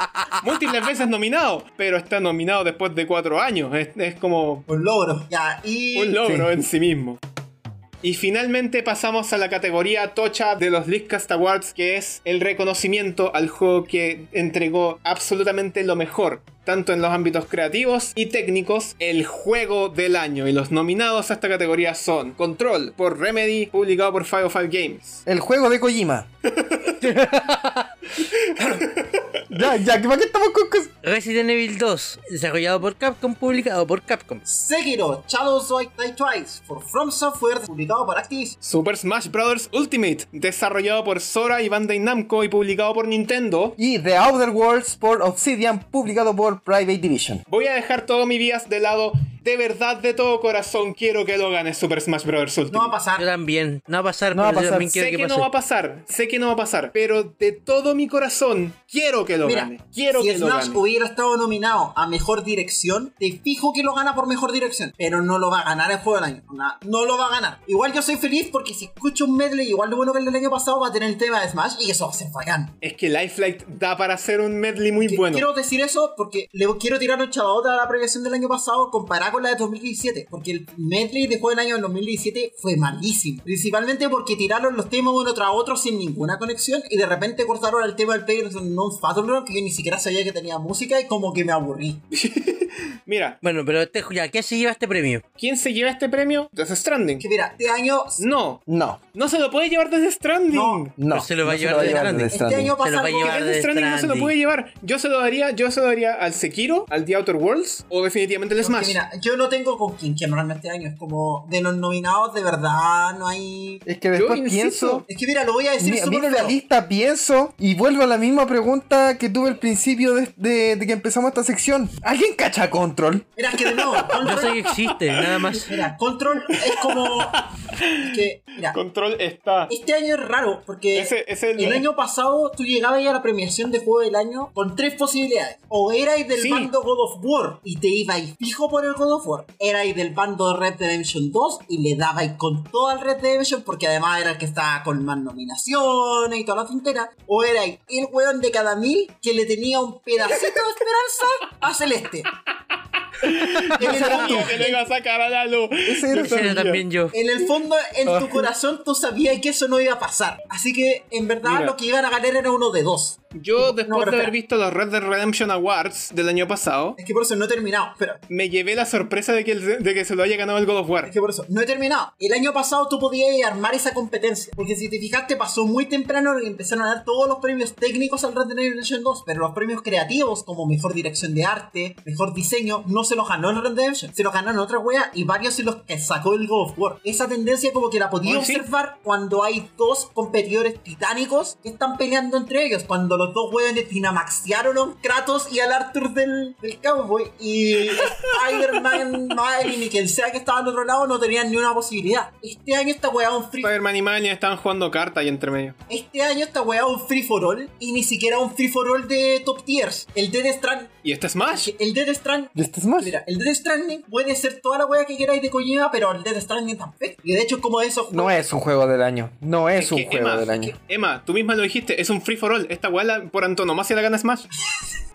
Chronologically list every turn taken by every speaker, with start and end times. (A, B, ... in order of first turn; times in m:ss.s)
0:00.4-0:04.7 A
0:04.7-0:06.2 B
0:06.0-0:07.2 A
0:06.2-0:06.5 C
0:08.0-0:25.2 A
0:25.3-0:26.3 C
0:26.5-0:27.0 A
0:27.0-0:27.9 D
0:28.6-0:28.8 C
0:28.6-0:29.3 A
0:29.5-0:30.9 C
0:31.0-0:34.4 D
0:34.4-0:38.6 B
0:38.6-0:43.8 A
0:43.8-0:47.4 C
0:47.5-0:53.0 A
0:52.7-0:53.3 B
0:53.2-0:55.5 D
0:54.3-0:55.0 C
0:54.8-1:00.8 A
0:59.4-1:12.8 B
1:12.8-1:15.5 A
1:15.0-1:32.0 B
1:32.1-1:33.4 A
1:33.4-1:35.2 D
1:35.4-1:37.2 A
1:37.2-1:38.2 B
1:38.2-1:38.6 A
1:38.7-1:39.0 C
1:39.1-1:41.0 A
1:40.5-1:40.8 B
1:41.0-1:42.7 C
1:41.1-1:44.3 D
1:41.8-1:43.5 B
1:43.1-1:49.0 A
1:48.6-1:53.8 B
1:53.8-1:55.0 C
1:54.2-1:55.0 A
1:55.1-1:56.6 B
1:55.8-2:03.3 C
2:03.4-2:04.5 B
2:04.1-2:05.3 A
2:04.2-2:05.9 D
2:05.7-2:07.4 B
2:06.7-2:08.2 A
2:08.0-2:08.8 B
2:08.7-2:09.7 A
2:09.7-2:32.3 B
2:10.9-2:11.9 A
2:16.3-2:16.7 A
2:33.1-2:36.7 A
2:33.8-2:34.8 B
2:33.8-2:34.6 C
2:35.8-2:36.8 C
2:36.1-2:37.2 D
2:37.1-2:44.3 B
2:38.1-2:38.5 D
2:41.4-2:41.8 A
2:43.3-2:47.0 A
2:47.0-2:48.2 B
2:48.3-2:51.1 A
2:51.0-3:23.7 B
3:08.2-3:08.6 A
3:17.9-3:18.4 A
3:23.6-3:25.8 A
3:25.9-3:30.9 B
3:31.0-3:31.7 A
3:31.5-3:38.4 B
3:32.6-3:33.2 C
3:38.1-3:40.8 C
3:39.8-3:44.5 A